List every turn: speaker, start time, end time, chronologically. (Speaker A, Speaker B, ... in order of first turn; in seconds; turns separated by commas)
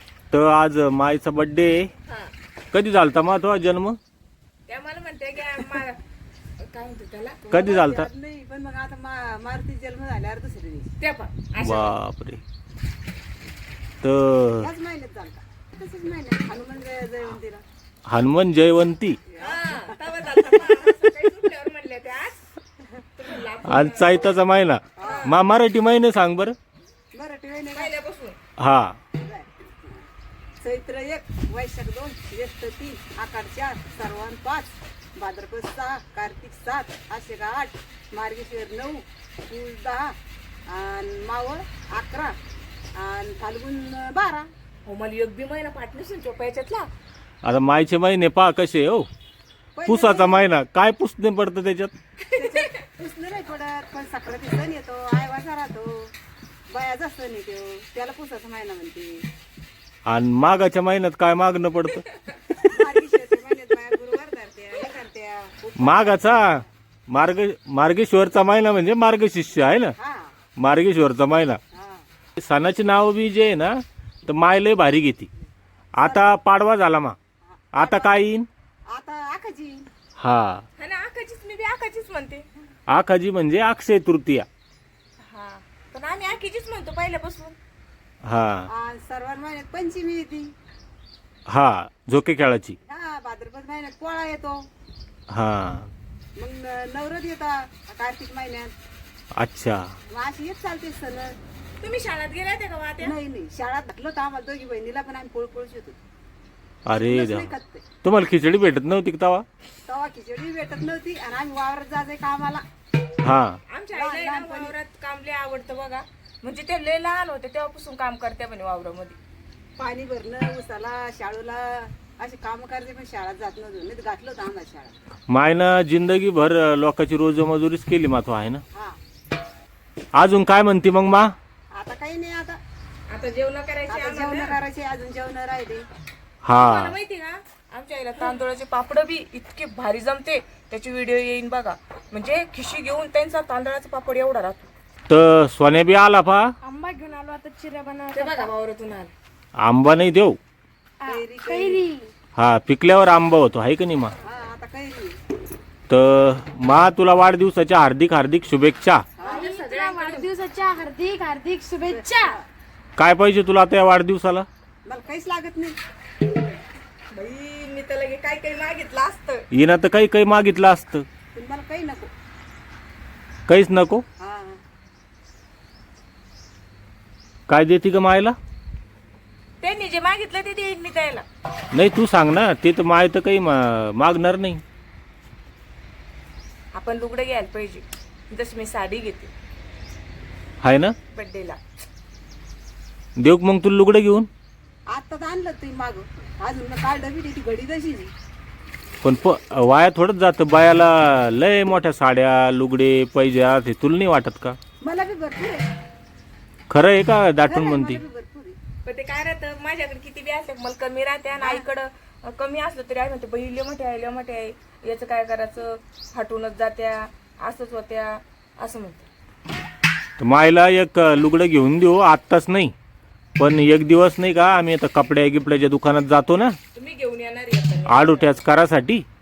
Speaker A: 0.3-1.9, Speaker B: 2.1-2.3, Speaker A: 2.7-4.0, Speaker B: 4.7-6.0, Speaker B: 6.6-7.5, Speaker C: 7.5-10.9, Speaker A: 7.5-8.1, Speaker B: 11.0-11.9, Speaker A: 11.6-12.4, Speaker A: 14.0-14.7, Speaker C: 14.6-17.6, Speaker A: 18.1-19.2, Speaker C: 19.3-20.0, Speaker B: 19.4-22.5, Speaker B: 23.2-24.4, Speaker A: 23.6-26.6, Speaker C: 25.0-25.4, Speaker B: 25.0-25.4, Speaker C: 27.1-27.9, Speaker B: 27.7-28.4, Speaker A: 28.6-29.0, Speaker C: 29.2-30.1, Speaker C: 30.6-40.1, Speaker C: 40.7-42.3, Speaker C: 43.0-44.5, Speaker B: 44.9-46.9, Speaker A: 47.4-49.1, Speaker C: 49.8-50.5, Speaker A: 49.9-51.9, Speaker B: 52.3-52.7, Speaker C: 52.3-56.1, Speaker C: 56.7-59.2, Speaker A: 60.1-62.0, Speaker C: 62.6-66.7, Speaker A: 65.8-66.6, Speaker A: 67.1-70.0, Speaker C: 70.0-70.3, Speaker A: 70.6-71.6, Speaker C: 71.7-72.0, Speaker A: 72.4-75.3, Speaker A: 76.0-77.2, Speaker C: 76.0-76.2, Speaker C: 77.4-78.2, Speaker A: 77.7-78.5, Speaker C: 78.9-79.8, Speaker A: 80.2-80.6, Speaker B: 80.8-82.5, Speaker A: 82.9-84.5, Speaker B: 85.2-87.6, Speaker A: 88.2-88.7, Speaker C: 88.7-90.5, Speaker A: 91.5-92.8, Speaker C: 92.9-94.7, Speaker A: 95.3-95.9, Speaker C: 96.4-98.7, Speaker A: 99.4-99.9, Speaker C: 100.1-101.3, Speaker B: 101.8-103.2, Speaker C: 103.0-106.0, Speaker A: 106.9-109.5, Speaker C: 106.9-107.9, Speaker C: 109.9-112.6, Speaker A: 113.2-113.6, Speaker B: 113.7-119.2, Speaker C: 113.9-114.7, Speaker C: 119.8-125.0, Speaker A: 125.3-128.6, Speaker C: 128.7-129.0, Speaker A: 130.2-131.3, Speaker C: 131.7-132.6, Speaker B: 133.1-134.6, Speaker C: 133.9-135.9, Speaker A: 136.4-137.0, Speaker B: 136.5-144.7, Speaker A: 145.1-146.5, Speaker D: 146.6-148.5, Speaker B: 148.1-149.1, Speaker A: 149.6-150.4, Speaker D: 151.0-152.1, Speaker C: 151.1-151.9, Speaker A: 152.4-154.2, Speaker C: 154.2-155.2, Speaker A: 155.9-159.1, Speaker C: 159.2-159.5, Speaker B: 159.2-160.3, Speaker D: 159.3-162.4, Speaker C: 161.8-162.5, Speaker A: 163.0-164.5, Speaker C: 164.8-165.8, Speaker B: 167.1-169.5, Speaker A: 169.5-171.1, Speaker C: 171.3-172.1, Speaker A: 173.5-174.1, Speaker C: 174.2-174.6, Speaker A: 177.5-178.4, Speaker B: 179.6-181.2, Speaker A: 181.7-184.6, Speaker B: 186.7-189.3, Speaker A: 190.6-190.9, Speaker B: 191.1-191.6, Speaker A: 193.2-194.3, Speaker C: 194.9-198.1, Speaker A: 199.0-204.6, Speaker C: 204.8-205.7, Speaker A: 206.7-208.0, Speaker C: 207.4-208.6, Speaker B: 208.8-219.1, Speaker C: 211.4-211.7, Speaker A: 220.2-222.7, Speaker A: 223.4-226.6, Speaker B: 226.8-228.3, Speaker A: 227.9-229.1